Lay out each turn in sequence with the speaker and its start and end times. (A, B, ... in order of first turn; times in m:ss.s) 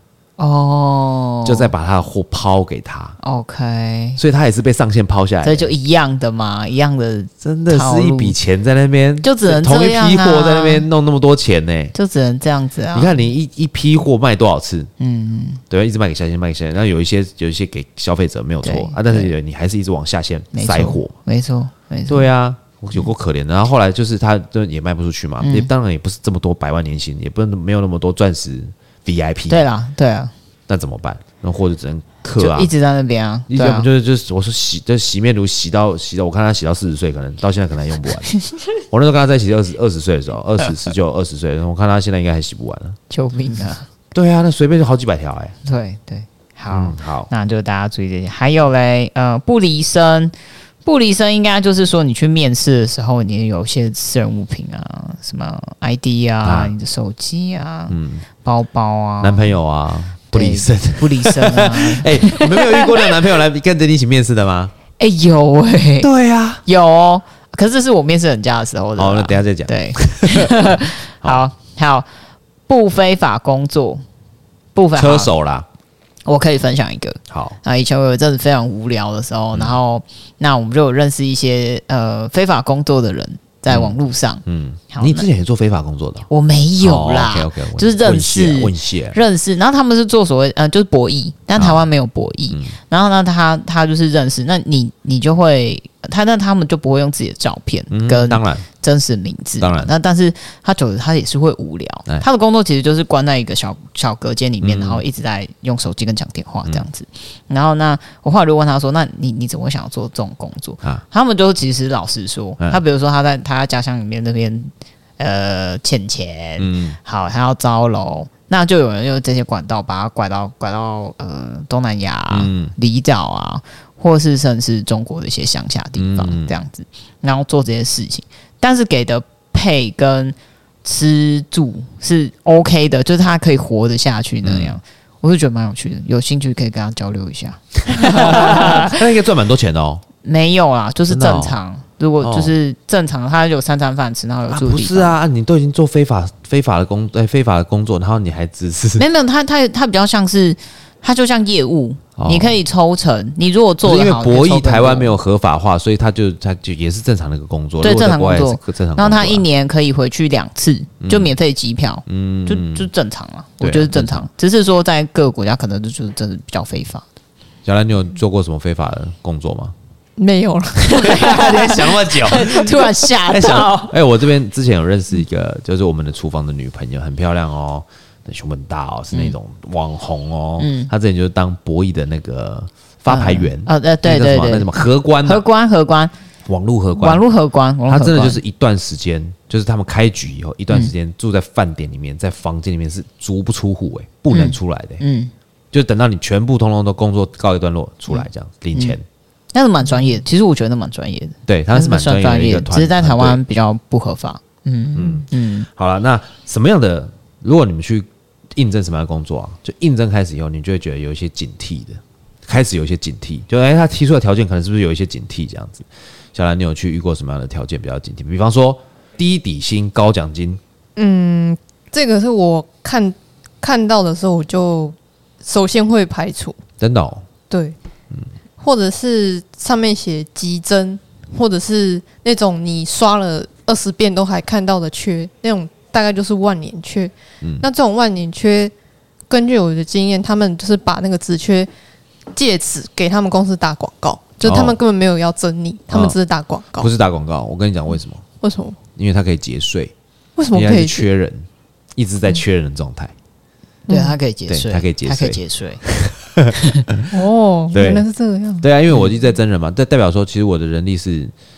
0:00.4-0:01.7 A
0:01.4-0:03.2 B
0:03.2-0:04.2 A
0:04.2-0:05.7 B
0:05.4-0:08.4 A
0:07.4-0:11.9 B
0:09.2-0:10.8 A
0:11.9-0:13.2 A
0:12.9-0:14.9 B
0:15.0-0:15.6 A
0:15.7-0:21.1 B
0:18.6-0:19.3 A
0:20.5-0:22.3 A
0:22.1-0:29.6 B
0:25.4-0:25.7 A
0:29.5-0:30.3 A
0:30.7-0:32.7 B
0:32.4-0:33.9 A
0:33.5-0:38.3 B
0:38.9-0:43.0 B
0:43.1-0:43.9 A
0:44.1-0:45.6 B
0:45.6-0:50.3 A
0:46.7-0:47.3 B
0:50.8-0:59.5 A
0:56.4-0:56.7 B
0:57.9-0:58.2 B
0:59.2-1:04.7 B
1:00.3-1:03.1 A
1:05.0-1:06.1 A
1:06.0-1:06.6 B
1:06.6-1:12.1 A
1:09.0-1:11.4 B
1:12.7-1:14.0 A
1:14.7-1:15.3 A
1:15.0-1:15.7 B
1:16.2-1:25.3 A
1:17.3-1:17.6 B
1:23.7-1:26.3 B
1:26.3-2:19.0 A
1:26.8-1:29.2 B
1:31.6-1:31.8 B
1:32.5-1:32.8 B
1:37.9-1:38.6 B
1:39.6-1:39.9 B
1:44.6-1:45.0 B
1:56.6-1:57.0 B
2:02.3-2:02.7 B
2:06.0-2:06.5 B
2:14.4-2:14.8 B
2:17.9-2:20.0 B
2:20.2-2:25.2 A
2:21.1-2:21.5 B
2:22.2-2:22.5 B
2:24.5-2:29.0 B
2:29.0-2:35.1 A
2:32.2-2:32.6 B
2:33.8-2:39.4 B
2:37.8-2:47.0 A
2:41.0-2:41.3 B
2:42.1-2:42.9 B
2:43.6-2:44.2 B
2:47.6-2:49.7 B
2:50.2-2:51.8 C
2:50.8-2:53.9 A
2:50.9-3:05.4 B
3:00.6-3:00.9 A
3:03.1-3:04.7 A
3:05.2-3:06.1 A
3:06.4-3:07.2 B
3:07.0-3:08.4 A
3:07.9-3:15.0 B
3:14.3-3:15.3 A
3:15.7-3:19.0 B
3:19.5-3:25.7 A
3:21.5-3:23.4 B
3:24.9-3:40.6 B
3:41.0-3:46.6 C
3:46.8-3:47.2 B
3:47.5-3:47.8 C
3:48.6-3:58.7 C
3:59.3-4:01.7 C
4:02.3-4:06.9 C
4:04.4-4:04.8 B
4:05.9-4:06.2 B
4:06.8-4:08.2 B
4:08.4-4:08.8 C
4:08.9-4:09.9 B
4:10.4-4:11.1 C
4:10.5-4:13.1 B
4:13.9-4:14.1 C
4:13.9-4:15.8 A
4:14.5-4:17.1 B
4:16.5-4:16.9 A
4:17.1-4:18.6 C
4:17.7-4:18.0 B
4:18.6-4:21.3 B